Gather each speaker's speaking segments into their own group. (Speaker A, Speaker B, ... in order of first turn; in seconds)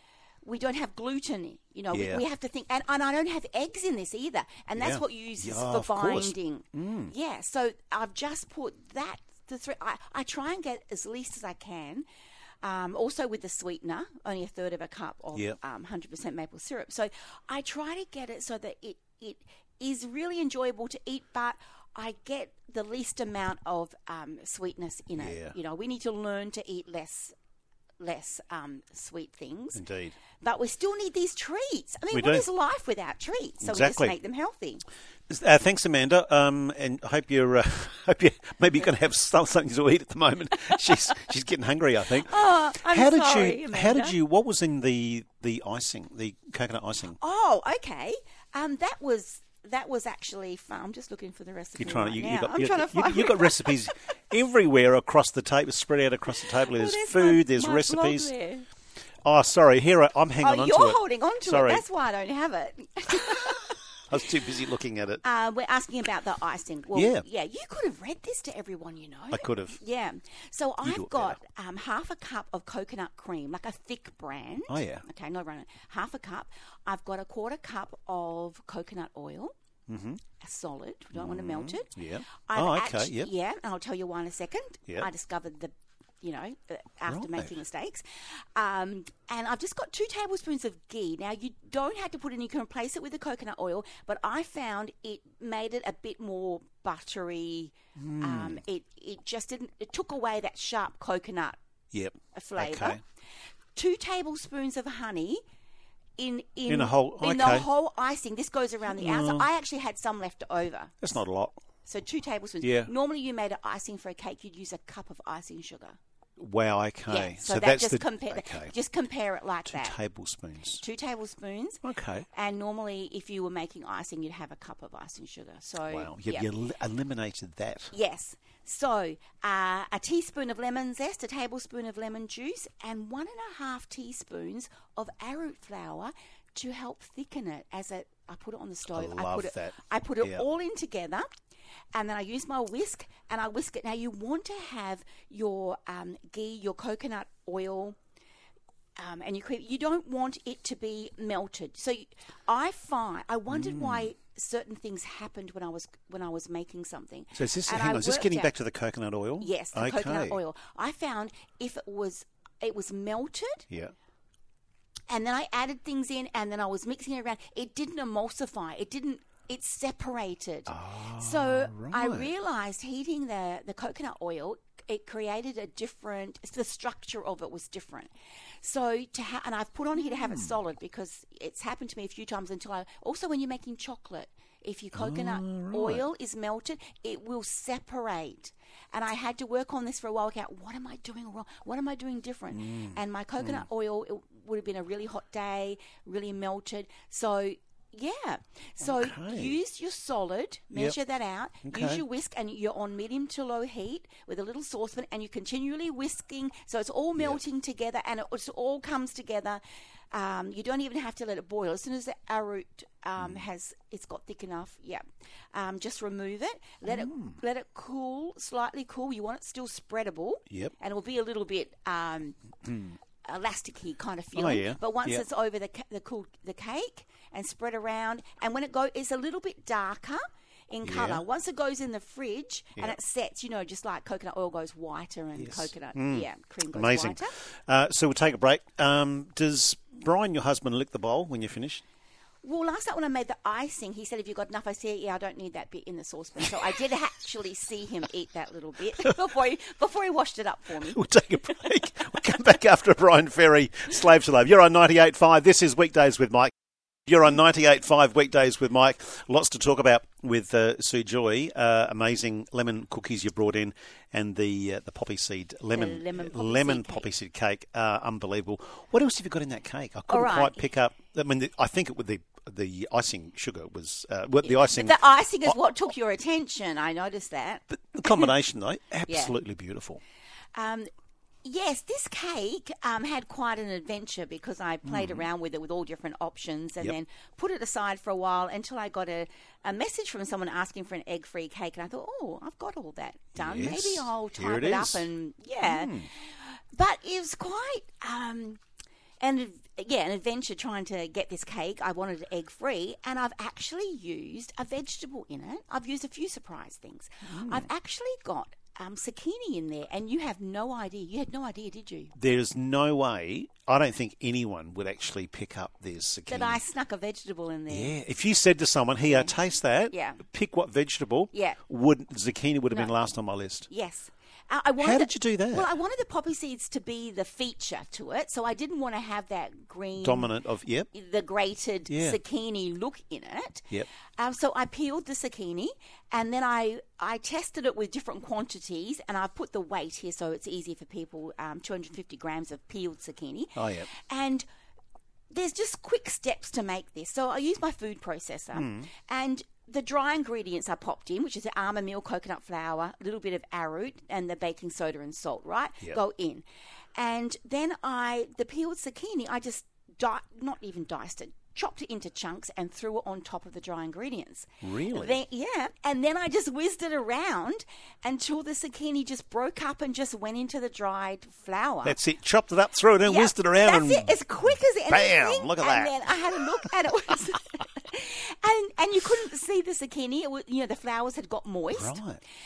Speaker A: 0.4-12.1, 12.6-27.3, 28.0-29.8, 30.4-34.8, 42.2-44.1, 47.2-53.9, 56.5-58.6, 60.4-63.8, 65.2-79.5, 80.4-81.9, 82.5-101.6, 102.3-103.0, 103.7-105.4, 106.2-111.0, 111.8-116.0, 117.1-120.0, 120.8-126.5, 127.9-141.3, 141.9-148.0, 149.0-158.5, 159.4-163.7, 165.1-178.1, 178.6-222.4, 223.2-237.3, 242.4-251.0, 265.7-267.1, 270.1-270.6, 274.4-278.3, 279.1-279.3, 280.5-280.9, 281.4-298.6, 299.2-312.1, 316.3-317.9, 319.1-319.3, 319.9-320.2, 321.3-321.6, 323.7-330.3, 330.9-344.4, 345.3-356.4, 356.9-372.0, 373.0-382.0
Speaker B: 1.9-2.2, 4.8-7.1, 25.2-25.5, 29.7-30.1, 32.1-32.4, 33.6-34.1, 35.3-47.2, 51.8-58.3, 59.2-61.8, 64.1-65.2, 66.9-67.2, 69.3-69.8, 70.8-71.4, 74.7-75.0, 79.9-80.2, 81.1-83.3, 87.1-87.5, 98.0-98.6, 101.9-103.0, 106.7-107.7, 108.9-109.5, 111.0-111.6, 112.6-112.9, 116.4-118.7, 119.7-120.8, 121.8-122.2, 125.9-127.9, 138.9-140.4, 153.5-154.1, 157.3-160.4, 170.7-172.3, 180.2-180.6, 184.9-186.0, 192.5-193.7, 198.8-199.6, 201.6-202.0, 213.2-213.4, 216.8-217.4, 222.6-223.0, 224.3-225.2, 230.8-231.2, 235.3-241.8, 246.5-246.8, 250.8-256.5, 257.1-275.6, 277.7-280.0, 284.8-285.2, 293.3-295.1, 295.6-296.1, 307.3-307.7, 312.1-316.6, 317.7-323.7, 324.8-325.7, 330.0-330.9, 331.9-332.2, 343.6-343.9, 348.5-348.9, 364.6-365.2, 371.8-376.7, 381.7-382.2